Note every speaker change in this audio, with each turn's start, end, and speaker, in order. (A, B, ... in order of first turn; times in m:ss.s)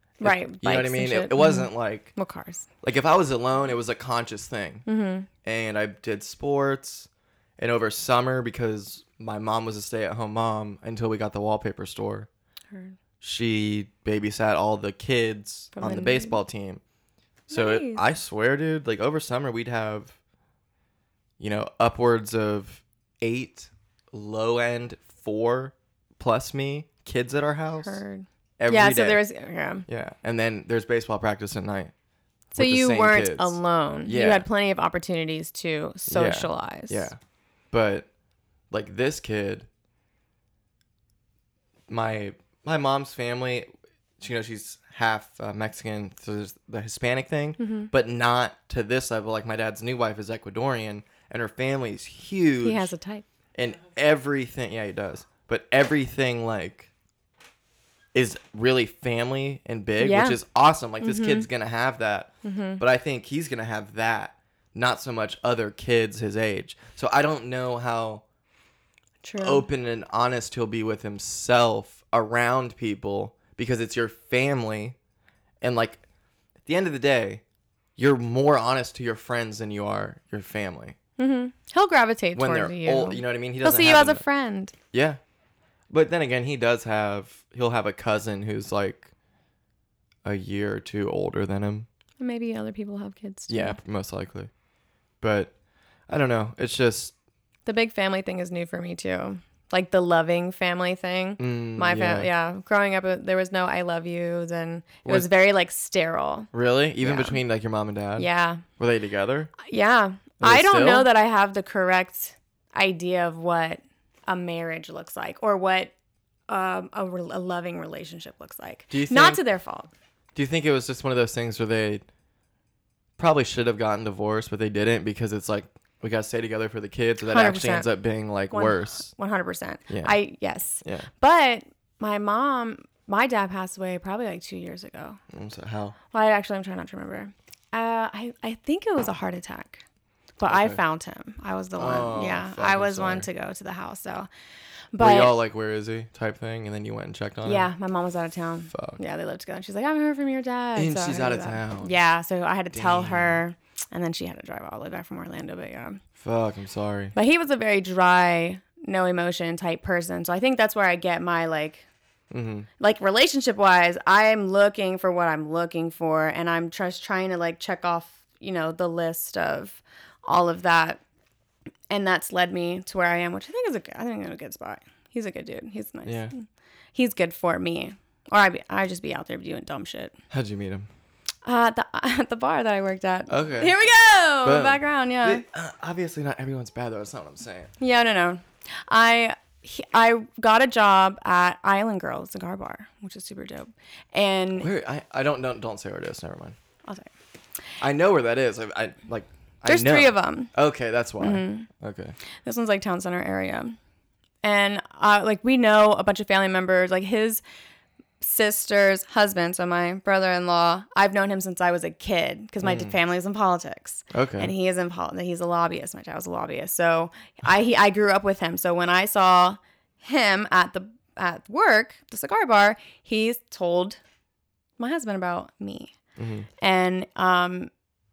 0:00.2-0:02.1 A
0:00.2-0:02.7 B
0:02.8-0:04.8 A
0:04.9-0:05.3 B
0:05.4-0:12.3 A
0:13.2-0:16.8 A
0:15.7-0:16.4 B
0:17.5-0:18.0 B
0:17.5-0:20.2 A
0:21.4-0:28.0 A
0:27.8-0:29.8 B
0:28.6-0:29.2 A
0:29.9-0:31.9 A
0:32.5-0:37.1 B
0:32.6-0:34.4 A
0:36.1-0:37.2 A
0:37.7-0:38.1 A
0:38.7-0:39.7 A
0:41.9-0:43.7 A
0:44.2-0:52.9 A
0:47.6-0:47.9 B
0:52.6-0:53.2 B
0:53.5-0:56.9 A
0:58.1-1:08.2 A
1:00.0-1:00.4 B
1:01.0-1:01.5 B
1:02.4-1:02.8 B
1:09.2-1:09.6 B
1:09.4-1:15.0 A
1:15.6-1:16.0 A
1:16.6-1:17.4 A
1:18.0-1:21.0 A
1:21.2-1:24.7 B
1:22.4-1:24.2 A
1:24.9-1:25.2 A
1:25.9-1:29.1 A
1:30.2-1:31.9 A
1:32.2-1:33.8 B
1:33.5-1:34.5 A
1:35.2-1:35.5 A
1:36.1-1:37.1 A
1:37.6-1:46.5 B
1:41.4-1:42.3 A
1:46.5-1:49.5 A
1:47.0-1:47.4 B
1:48.2-1:48.6 B
1:49.6-1:55.9 B
1:50.4-1:51.1 A
1:56.5-1:59.9 B
1:58.9-1:59.4 A
2:00.3-2:02.0 A
2:03.2-2:09.1 A
2:07.2-2:07.9 B
2:08.5-2:15.2 B
2:09.9-2:10.2 A
2:10.8-2:11.1 A
2:15.3-2:16.0 A
2:16.1-2:19.8 B
2:20.4-2:24.3 B
2:20.5-2:20.8 A
2:21.8-2:23.3 A
2:24.9-2:25.3 B
2:25.0-2:27.7 A
2:27.4-2:36.0 B
2:28.7-2:29.0 A
2:30.8-2:31.9 A
2:32.7-2:33.4 A
2:36.2-2:37.1 A
2:37.1-2:41.8 B
2:42.3-2:42.7 A
2:42.8-2:51.0 B
2:51.9-3:00.2 B
2:56.0-2:56.3 A
3:00.3-3:00.9 A
3:01.4-3:05.4 B
3:03.3-3:03.8 A
3:04.4-3:07.7 A
3:07.8-3:14.7 B
3:14.6-3:16.6 A
3:16.8-3:17.1 B
3:17.8-3:22.2 A
3:19.6-3:20.5 B
3:21.2-3:21.7 B
3:22.4-3:23.8 B
3:24.4-3:27.4 B
3:28.2-3:44.0 B
3:32.6-3:32.9 A
3:34.1-3:34.5 A
3:44.8-3:45.9 B
3:46.2-3:46.5 A
3:46.6-3:47.7 B